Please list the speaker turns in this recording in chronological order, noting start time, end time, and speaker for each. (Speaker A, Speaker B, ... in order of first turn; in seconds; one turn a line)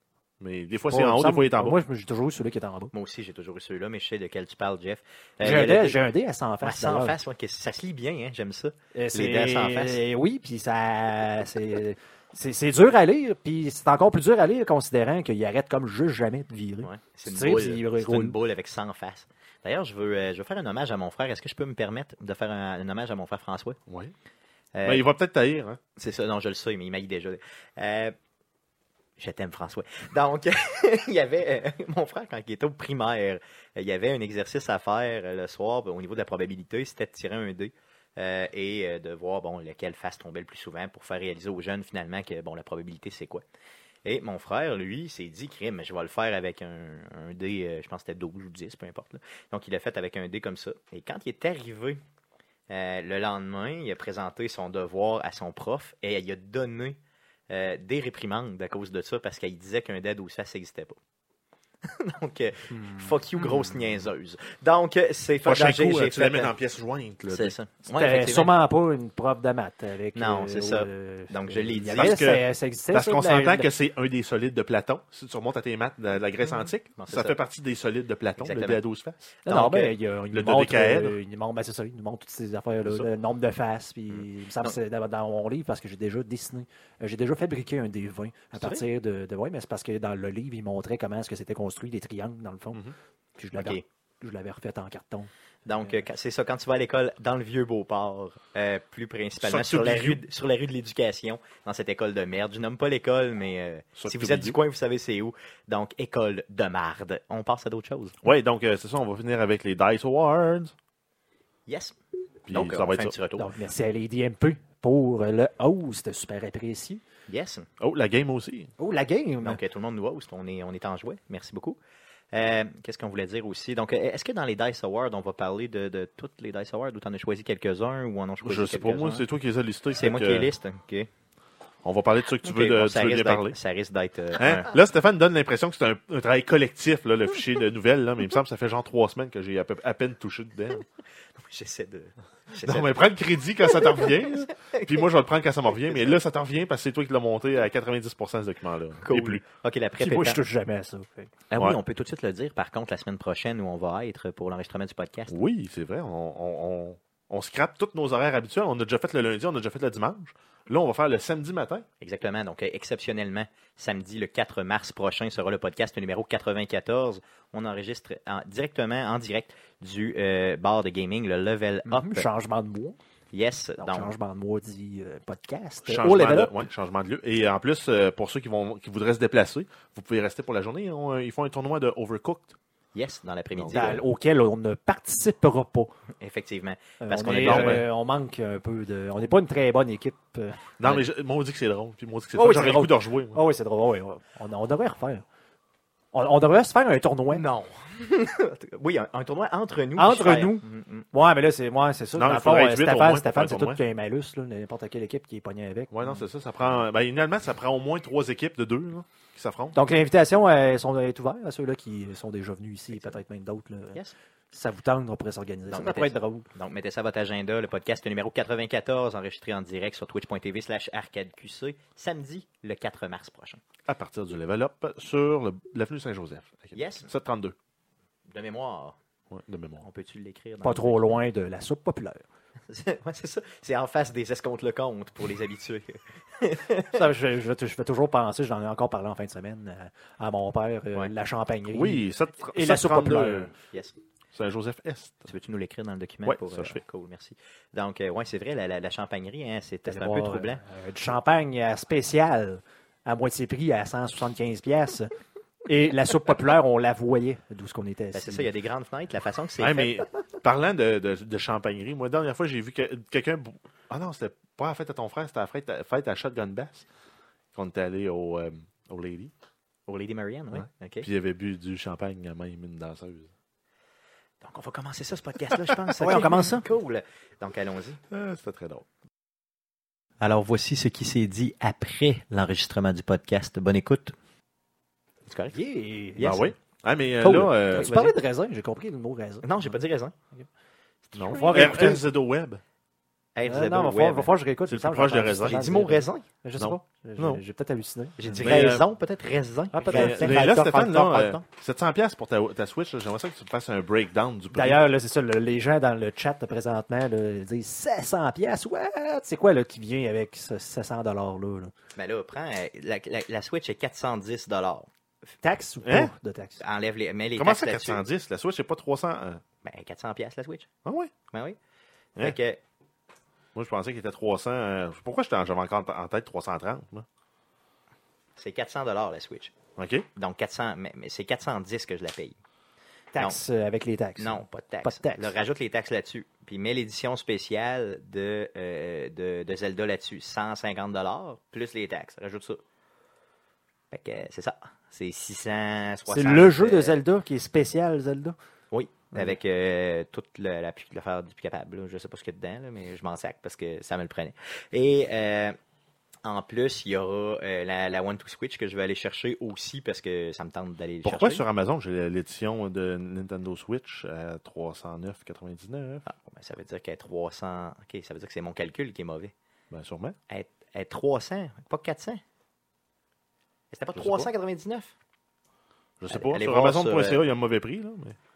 Speaker A: 0.4-1.8
Speaker B: 0.9-2.9
Speaker C: 2.9-6.0
Speaker B: 5.4-7.2
Speaker C: 6.6-10.0
Speaker B: 8.9-18.4
Speaker C: 16.8-23.8
Speaker A: 23.9-24.1
Speaker C: 24.7-25.0
Speaker A: 24.8-25.8
Speaker C: 25.9-28.1
Speaker C: 29.2-43.4
Speaker C: 44.0-52.0
Speaker C: 52.7-57.0
Speaker C: 57.5-61.0
Speaker C: 61.8-66.5
Speaker A: 65.4-67.5
Speaker C: 67.3-68.5
Speaker B: 67.9-73.7
Speaker C: 70.1-72.2
Speaker A: 71.9-79.2
Speaker C: 77.0-77.4
Speaker C: 78.4-78.8
Speaker C: 79.4-79.9
Speaker B: 79.5-92.8
Speaker A: 80.3-81.2
Speaker C: 84.1-84.8
Speaker C: 88.6-88.8
Speaker B: 93.4-95.3
Speaker C: 93.5-93.8
Speaker C: 95.7-108.2
Speaker A: 99.4-100.2
Speaker A: 104.0-104.6
Speaker A: 108.2-110.7
Speaker C: 111.7-112.0
Speaker A: 112.5-113.1
Speaker C: 112.5-113.5
Speaker B: 113.4-117.0
Speaker C: 117.3-117.7
Speaker A: 117.8-118.7
Speaker B: 118.8-119.6
Speaker C: 119.4-121.8
Speaker C: 122.3-129.2
Speaker A: 128.4-130.5
Speaker C: 129.9-131.1
Speaker A: 131.8-133.6
Speaker C: 132.4-134.7
Speaker A: 134.4-140.8
Speaker C: 141.3-143.1
Speaker A: 142.6-149.4
Speaker C: 143.6-145.0
Speaker C: 145.9-146.2
Speaker C: 149.0-150.4
Speaker B: 150.0-151.3
Speaker C: 151.5-155.3
Speaker A: 155.3-161.8
Speaker C: 162.0-172.2
Speaker B: 171.9-173.0
Speaker C: 173.3-174.1
Speaker B: 173.8-176.7
Speaker A: 175.8-182.6
Speaker C: 182.9-184.0
Speaker A: 183.5-184.0
Speaker B: 183.7-185.9
Speaker C: 186.2-187.8
Speaker B: 187.0-190.7
Speaker A: 187.3-187.8
Speaker A: 190.8-193.4
Speaker B: 192.3-195.2
Speaker B: 196.1-197.4
Speaker C: 197.3-201.1
Speaker B: 200.0-205.9
Speaker A: 202.2-203.8
Speaker A: 205.9-209.8
Speaker B: 209.7-214.0
Speaker B: 214.5-216.4
Speaker C: 215.7-223.6
Speaker A: 223.8-227.6
Speaker C: 226.7-227.1
Speaker C: 228.3-229.0
Speaker A: 229.3-229.8
Speaker C: 229.8-231.1
Speaker B: 230.6-232.2
Speaker C: 232.7-237.0
Speaker B: 236.9-243.5
Speaker A: 241.7-243.5
Speaker A: 244.3-245.3
Speaker C: 245.3-250.6
Speaker A: 246.2-246.8
Speaker B: 249.8-255.1
Speaker B: 255.7-258.5
Speaker C: 258.1-259.9
Speaker A: 259.6-266.9
Speaker A: 267.5-269.3
Speaker C: 269.9-271.1
Speaker A: 270.5-273.3
Speaker C: 274.4-278.0
Speaker B: 276.0-276.6
Speaker A: 278.1-278.9
Speaker C: 280.2-284.1
Speaker C: 285.2-285.6
Speaker B: 285.5-286.4
Speaker C: 286.1-286.5
Speaker A: 286.2-287.9
Speaker C: 287.2-288.1
Speaker B: 287.3-289.7
Speaker C: 289.4-290.1
Speaker C: 291.1-291.9
Speaker A: 291.1-292.6
Speaker B: 291.3-292.0
Speaker C: 293.3-294.3
Speaker B: 293.4-298.5
Speaker A: 294.7-295.6
Speaker C: 295.4-296.2
Speaker A: 296.6-297.4
Speaker C: 298.2-301.4
Speaker A: 298.4-298.8
Speaker B: 299.7-300.5
Speaker A: 299.9-304.8
Speaker B: 304.5-311.7
Speaker C: 311.9-314.9
Speaker B: 315.4-316.6
Speaker A: 315.8-316.1
Speaker C: 316.6-318.0
Speaker A: 317.4-319.4
Speaker C: 319.6-320.7
Speaker A: 320.8-321.1
Speaker C: 321.3-321.6
Speaker C: 322.2-322.6
Speaker A: 323.5-327.1
Speaker C: 328.4-329.5
Speaker A: 329.8-330.1
Speaker C: 330.1-332.4
Speaker B: 333.1-335.3
Speaker C: 334.2-342.6
Speaker C: 343.9-347.0
Speaker B: 346.1-348.4
Speaker C: 348.7-355.6
Speaker C: 356.2-361.4
Speaker A: 361.0-366.0
Speaker C: 366.1-369.3
Speaker A: 369.7-370.2
Speaker C: 370.3-372.2
Speaker C: 373.7-374.9
Speaker A: 373.9-374.3
Speaker A: 376.0-378.2
Speaker C: 376.1-377.2